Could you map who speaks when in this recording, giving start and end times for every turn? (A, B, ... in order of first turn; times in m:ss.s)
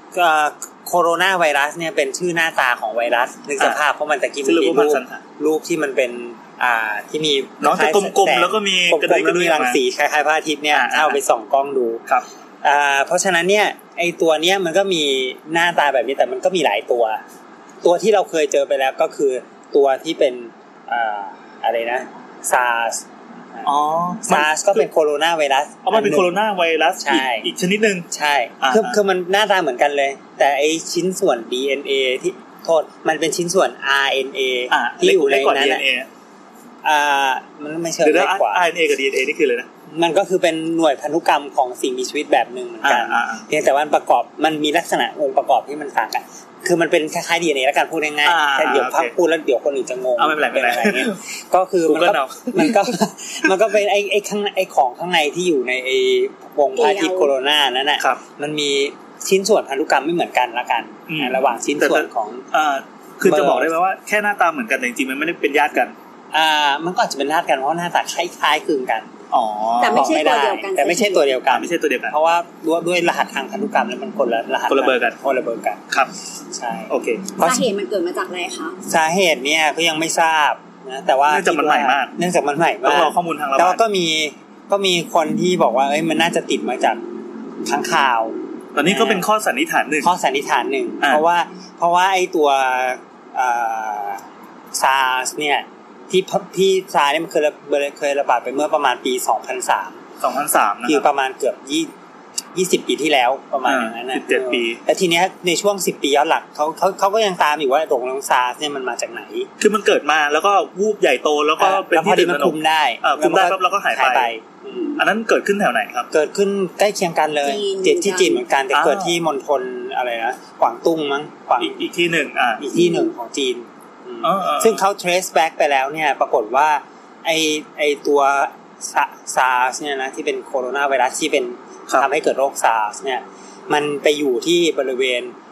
0:00.1-0:12.0 A
0:04.4-0:05.2 B
0:07.6-0:09.8 B
0:10.7-0:11.2 B
0:12.6-0:17.2 A
0:17.8-0:23.0 A
0:23.6-0:24.9 B
0:24.2-0:26.4 A
0:25.8-0:28.1 B
0:27.0-0:27.5 A
0:28.1-0:35.8 A
0:28.6-0:29.0 B
0:34.7-0:36.1 B
0:36.8-0:38.7 A
0:38.0-0:39.7 B
0:39.9-1:02.5 A
0:42.8-0:43.4 B
0:48.2-0:49.1 B
0:50.2-0:51.2 B
0:51.8-0:52.9 B
0:56.7-0:57.3 C
1:01.1-1:06.0 B
1:03.2-1:03.7 A
1:06.3-1:09.1 A
1:09.3-1:10.1 B
1:09.8-1:11.3 C
1:09.9-1:15.8 A
1:11.5-1:12.2 B
1:14.7-1:15.2 B
1:16.5-1:17.7 A
1:16.9-1:17.3 B
1:17.4-1:18.8 C
1:18.9-1:27.0 A
1:21.3-1:22.1 B
1:22.8-1:23.8 B
1:27.6-1:29.3 A
1:28.8-1:30.1 B
1:30.0-1:34.2 A
1:34.8-1:40.0 A
1:40.2-1:41.1 B
1:40.9-1:41.9 A
1:42.5-1:49.5 A
1:43.6-1:44.8 B
1:49.6-1:54.3 B
1:51.6-1:55.0 A
1:55.0-1:56.1 B
1:56.1-2:01.8 A
1:57.4-1:58.4 C
1:58.7-1:59.2 B
2:01.6-2:02.6 B
2:02.6-2:15.3 A
2:02.8-2:03.1 C
2:04.2-2:04.8 B